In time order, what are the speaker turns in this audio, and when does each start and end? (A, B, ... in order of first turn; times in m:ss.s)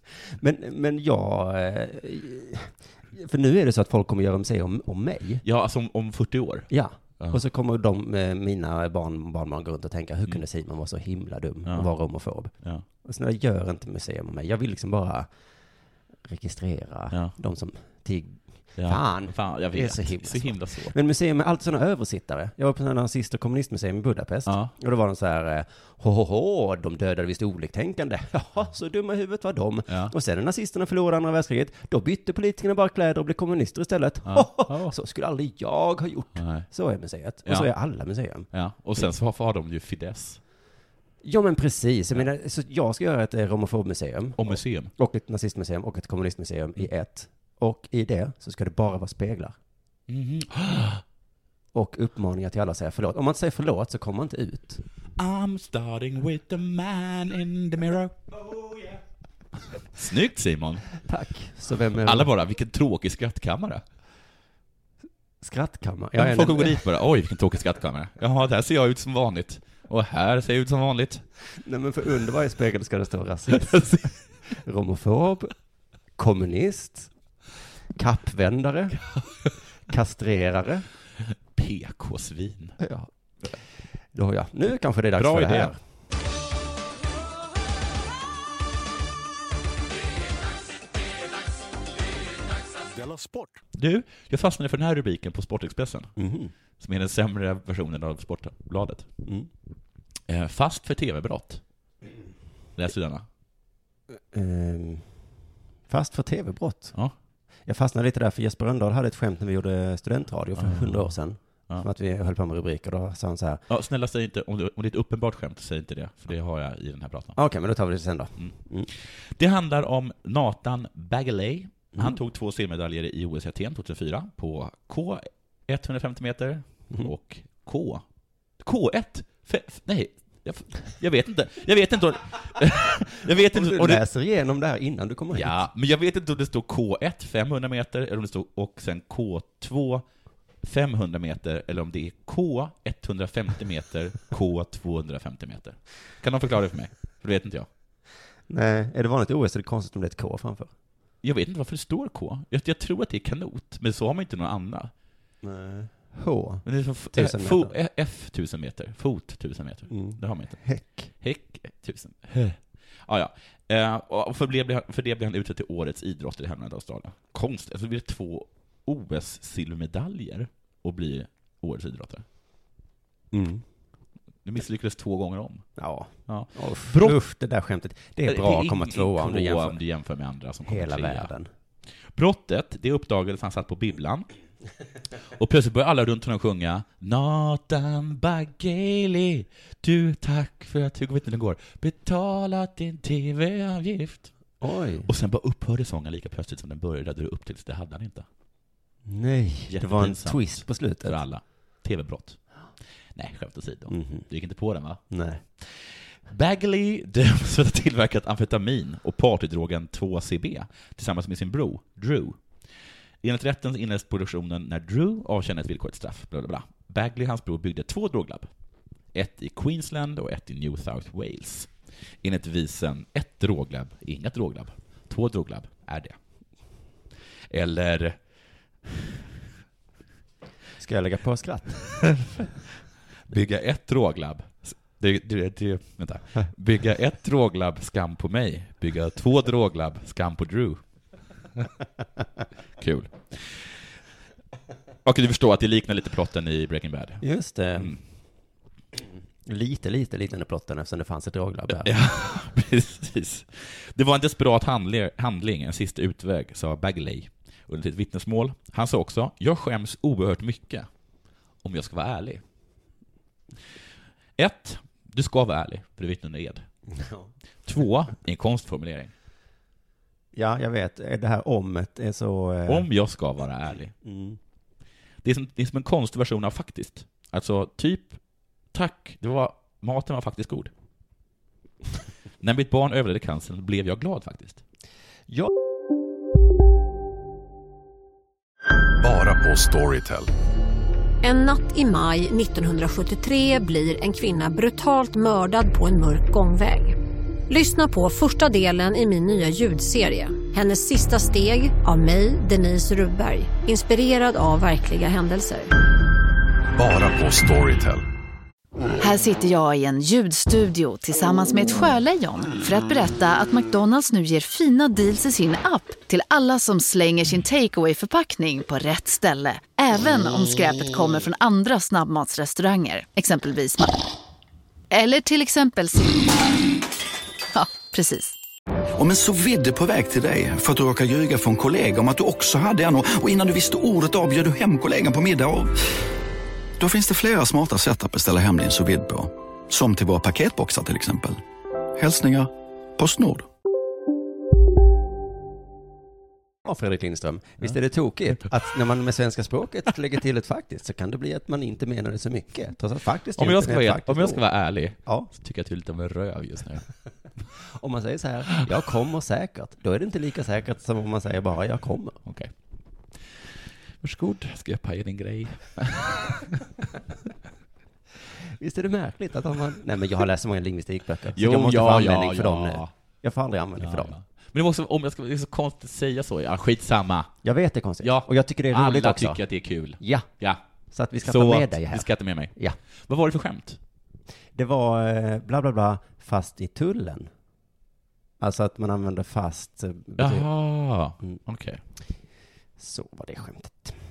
0:00.3-0:05.4 A
0:05.4-0:07.4 B
0:06.7-0:15.3 A
0:16.2-0:39.0 A
0:18.8-0:21.0 B
0:24.5-0:24.7 B
0:29.9-0:30.1 B
0:34.3-0:35.0 B
0:36.4-0:36.7 B
0:37.5-0:37.7 B
0:38.5-0:40.4 B
0:41.2-0:49.6 A
0:44.4-0:44.9 B
0:50.1-0:51.0 B
0:51.7-0:54.8 A
0:55.2-0:59.0 B
0:59.9-1:00.9 B
1:01.0-1:02.3 A
1:02.0-1:03.8 B
1:05.4-1:06.8 A
1:06.2-1:11.2 B
1:11.5-1:15.5 A
1:16.2-1:17.1 A
1:18.0-1:19.0 A
1:19.9-1:20.8 A
1:21.5-1:22.8 B
1:22.8-1:23.1 A
1:24.1-1:25.8 A
1:25.2-1:25.8 B
1:33.1-1:33.5 C
1:33.7-1:36.1 B
1:36.2-1:36.5 A
1:36.8-1:39.1 B
1:39.2-1:39.5 A
1:40.3-1:41.6 B
1:42.8-1:43.2 B
1:44.3-1:45.1 A
1:45.9-1:47.0 A
1:47.7-1:53.6 A
1:50.6-1:51.2 B
1:53.7-1:57.4 B
1:57.4-1:58.9 A
1:58.4-2:08.0 B
2:01.9-2:02.2 A
2:08.6-2:14.0 B
2:13.3-2:15.7 A
2:15.3-2:20.0 B
2:20.6-2:27.7 B
2:28.5-2:30.7 A
2:31.2-2:34.9 B
2:35.4-2:37.7 A
2:36.6-2:52.2 B
2:39.9-2:41.1 A
2:53.3-2:53.6 A
2:54.4-2:55.7 B
2:55.8-2:59.8 A
2:56.3-2:57.2 B
2:58.3-3:01.3 B
3:00.6-3:01.5 A
3:02.1-3:04.3 B
3:05.4-3:14.4 B
3:14.6-3:15.1 A
3:15.0-3:18.3 B
3:19.0-3:21.2 A
3:19.7-3:22.4 B
3:23.2-3:25.0 B
3:23.9-3:24.3 A
3:25.1-3:25.4 A
3:25.6-3:32.4 B
3:33.2-3:38.5 B
3:39.1-3:41.7 B
3:42.2-3:46.2 B
3:47.5-3:48.2 B
3:50.8-3:52.0 A
3:53.3-4:00.8 B
4:02.8-4:03.7 B
4:05.0-4:07.2 B
4:07.2-4:08.0 A
4:07.8-4:08.0 B
4:09.4-4:11.9 A
4:11.8-4:20.9 B
4:21.6-4:22.4 B
4:24.4-4:26.6 B
4:26.9-4:27.3 A
4:27.7-4:29.1 B
4:30.3-4:32.9 A
4:32.7-4:33.9 B
4:34.0-4:34.4 A
4:35.2-4:38.2 B
4:38.7-4:40.7 B
4:42.4-4:44.6 B
4:49.0-4:50.3 C
4:51.2-4:57.0 D
4:57.5-5:05.7 D
5:06.8-5:08.1 C
5:12.5-5:15.0 E
5:16.5-5:18.0 E
5:22.4-5:22.8 E
5:29.0-5:35.8 F
5:36.8-5:41.4 F
5:42.0-5:43.5 F
5:46.6-5:54.4 A
5:53.4-5:56.9 B
5:57.6-6:02.2 A
6:02.3-6:02.5 B
6:04.0-6:06.6 B
6:08.6-6:14.2 A
6:11.4-6:12.9 B
6:13.8-6:17.3 B
6:17.4-6:19.4 A
6:18.0-6:20.6 B
6:20.0-6:20.3 A
6:20.9-6:22.8 A
6:21.2-6:22.5 B
6:23.0-6:23.8 B
6:24.6-6:27.3 A
6:28.4-6:30.5 A
6:30.2-6:31.8 B
6:32.8-6:34.0 A